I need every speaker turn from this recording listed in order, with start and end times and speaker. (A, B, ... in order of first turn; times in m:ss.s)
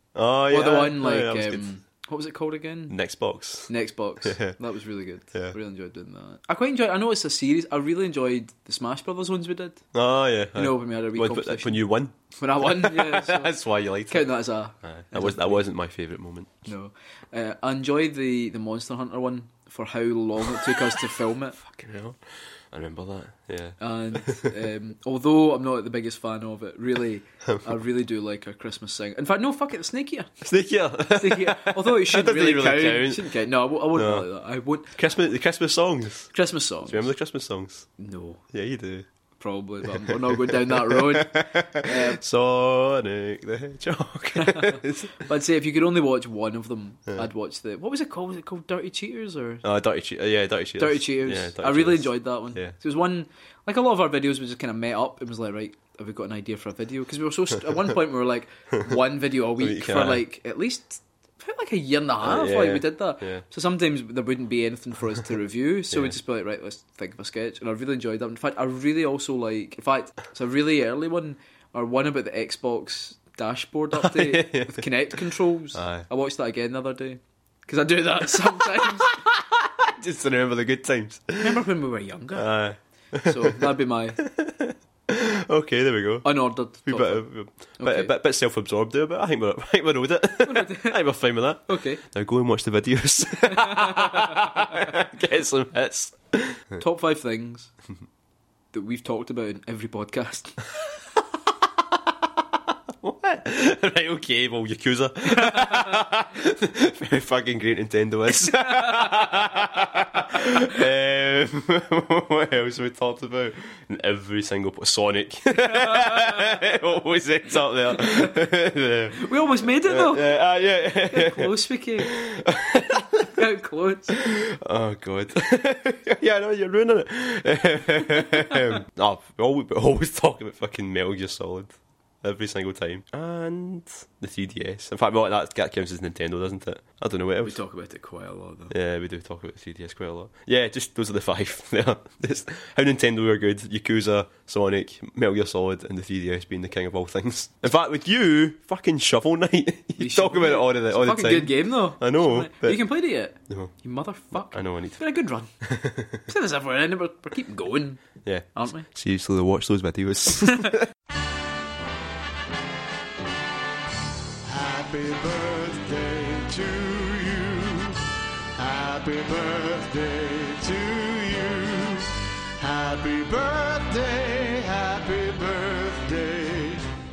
0:00.1-0:01.7 A
0:00.5-0:03.0 B
0:02.9-0:03.7 A
0:03.7-0:09.8 B
0:04.2-0:04.6 A
0:09.9-0:14.3 A
0:10.6-0:13.5 B
0:14.1-0:15.6 B
0:14.8-0:16.5 A
0:16.7-0:21.6 B
0:21.6-0:24.6 A
0:23.8-0:30.3 B
0:30.4-0:33.4 A
0:31.1-0:34.9 B
0:33.9-0:34.3 A
0:34.9-0:36.3 A
0:36.3-0:37.1 B
0:36.8-0:37.9 A
0:38.0-0:38.4 B
0:38.5-0:39.1 A
0:39.4-0:42.2 B
0:39.8-0:45.1 A
0:44.4-0:49.6 B
0:49.6-0:52.7 A
0:50.8-1:19.2 B
0:59.6-1:00.2 A
1:02.2-1:03.4 A
1:14.0-1:15.1 A
1:15.8-1:16.1 A
1:19.1-1:21.6 A
1:21.4-1:22.5 B
1:22.3-1:36.8 A
1:23.2-1:24.2 B
1:26.2-1:27.2 B
1:27.8-1:28.1 B
1:30.4-1:31.0 B
1:31.7-1:32.0 B
1:33.5-1:34.8 B
1:36.8-1:37.7 B
1:38.7-1:40.7 B
1:43.0-1:59.3 A
1:48.3-1:49.5 B
1:50.4-1:50.7 B
1:55.6-1:56.6 B
1:58.0-1:58.4 B
1:59.1-2:00.3 B
1:59.8-2:03.3 A
2:01.1-2:02.1 B
2:03.0-2:04.2 B
2:04.1-2:17.6 A
2:08.4-2:08.7 B
2:17.4-2:18.7 B
2:18.7-2:32.8 A
2:30.0-2:35.5 B
2:33.5-2:33.7 A
2:34.5-2:35.0 A
2:35.6-2:36.2 A
2:36.2-2:38.9 B
2:38.2-2:40.9 A
2:40.4-2:40.8 B
2:44.4-2:56.8 C